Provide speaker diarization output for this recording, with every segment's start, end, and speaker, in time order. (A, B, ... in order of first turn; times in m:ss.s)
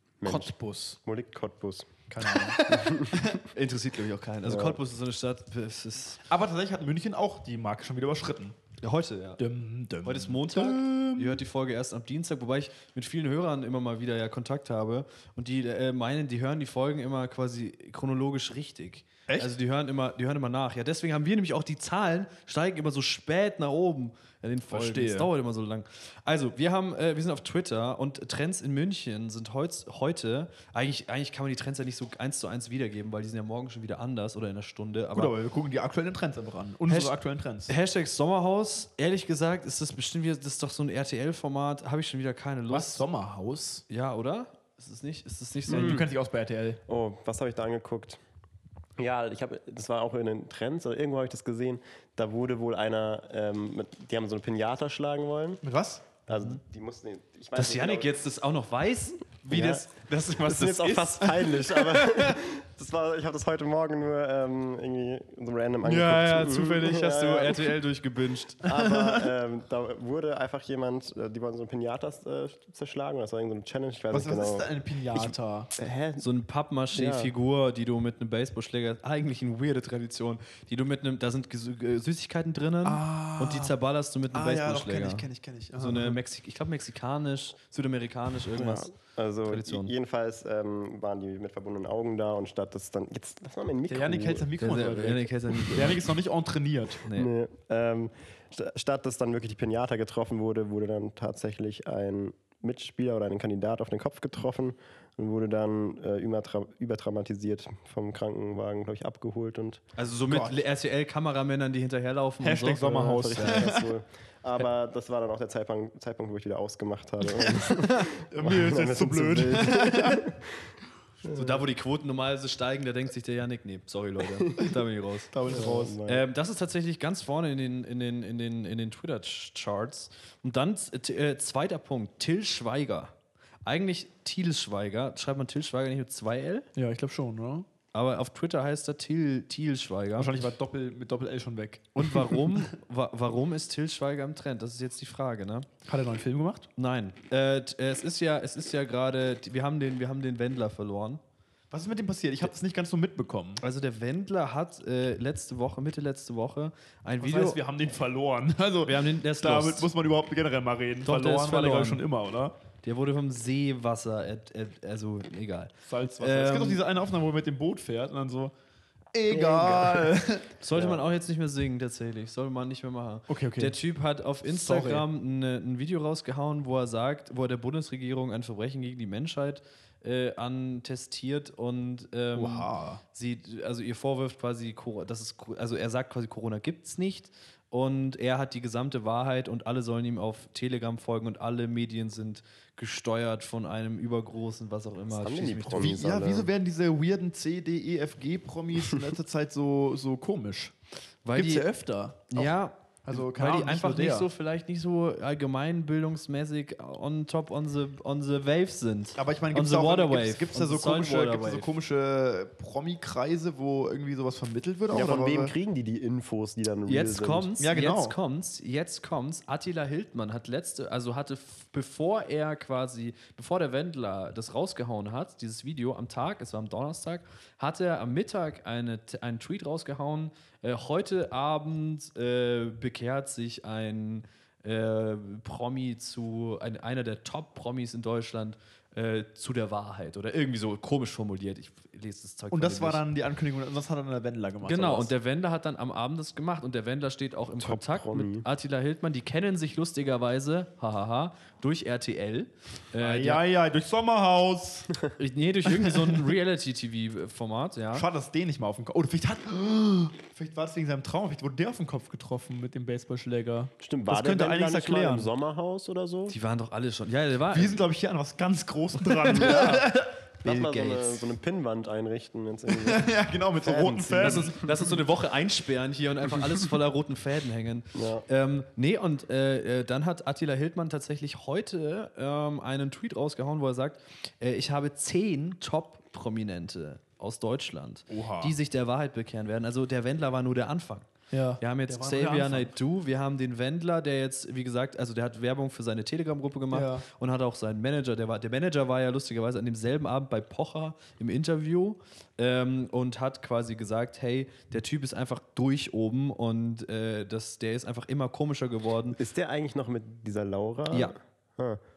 0:00.2-0:00.5 A
0:00.2-0:01.0 B
0:01.0-0:03.3 A
0:02.1-0:03.4 B
0:03.4-0:06.2 C
0:04.4-0:04.8 A
0:06.3-0:08.6 B
0:08.8-0:09.4 C
0:09.4-0:11.4 B
0:10.0-0:35.3 C
0:24.7-0:25.3 B
0:35.1-0:37.7 B
0:36.9-0:37.1 C
0:37.7-0:43.0 C
0:42.7-0:43.8 B
0:43.9-0:46.0 C
0:45.7-0:46.8 B
0:45.7-0:46.0 A
0:46.9-0:48.2 A
0:49.0-0:55.6 A
0:55.6-0:56.0 B
0:56.3-0:58.2 A
0:57.5-1:02.4 C
0:59.5-0:59.9 A
1:00.4-1:07.8 A
1:05.8-1:08.6 C
1:08.6-1:16.2 A
1:08.7-1:09.3 B
1:14.1-1:15.7 B
1:16.2-1:28.9 C
1:16.9-1:17.3 A
1:22.8-1:23.7 B
1:24.3-1:26.2 B
1:28.5-1:34.8 A
1:29.5-1:29.9 C
1:33.9-1:37.0 B
1:34.6-1:36.1 C
1:37.0-1:37.3 C
1:37.1-1:49.8 A
1:50.0-1:53.7 C
1:50.3-1:50.6 B
1:52.4-1:53.9 B
1:53.1-2:00.7 A
1:58.1-2:00.3 B
2:01.2-2:05.3 C
2:05.3-2:06.0 B
2:05.5-2:06.2 A
2:06.0-2:16.6 C
2:16.7-2:17.7 B
2:17.9-2:20.3 C
2:20.2-2:22.7 B
2:21.9-2:25.7 C
2:25.8-2:26.7 B
2:26.8-2:31.2 C
2:31.7-2:33.6 B
2:33.6-2:37.6 C
2:37.2-2:42.5 B
2:38.8-2:39.9 C
2:41.0-2:42.0 C
2:42.8-2:46.8 C
2:45.8-2:48.5 B
2:49.1-2:50.5 B
2:49.3-2:50.1 A
2:50.6-3:16.0 C
2:50.7-2:51.0 A
2:53.3-2:53.8 B
2:54.4-2:55.0 B
3:02.3-3:03.0 B
3:15.1-3:16.5 A
3:15.7-3:20.7 B
3:21.2-3:21.7 C
3:21.3-3:24.3 B
3:22.3-3:31.7 C
3:29.2-3:35.5 B
3:34.9-3:37.5 A
3:36.9-4:03.0 C
3:37.6-3:38.2 B
4:02.5-4:05.1 B
4:04.6-4:13.4 C
4:07.6-4:08.4 A
4:13.0-4:14.9 B
4:15.2-4:18.0 C
4:15.7-4:16.2 B
4:17.9-4:25.3 B
4:23.8-4:26.4 A
4:26.3-4:27.8 C
4:27.5-4:30.1 B
4:29.3-4:29.8 C
4:29.3-4:29.9 A
4:30.4-4:34.6 A
4:30.4-4:31.2 C
4:32.7-4:34.6 B
4:34.2-4:51.1 C
4:37.9-4:38.2 A
4:48.1-4:48.5 B
4:51.3-4:52.7 B
4:51.6-5:09.2 C
4:56.7-4:57.0 B
5:09.1-5:11.8 A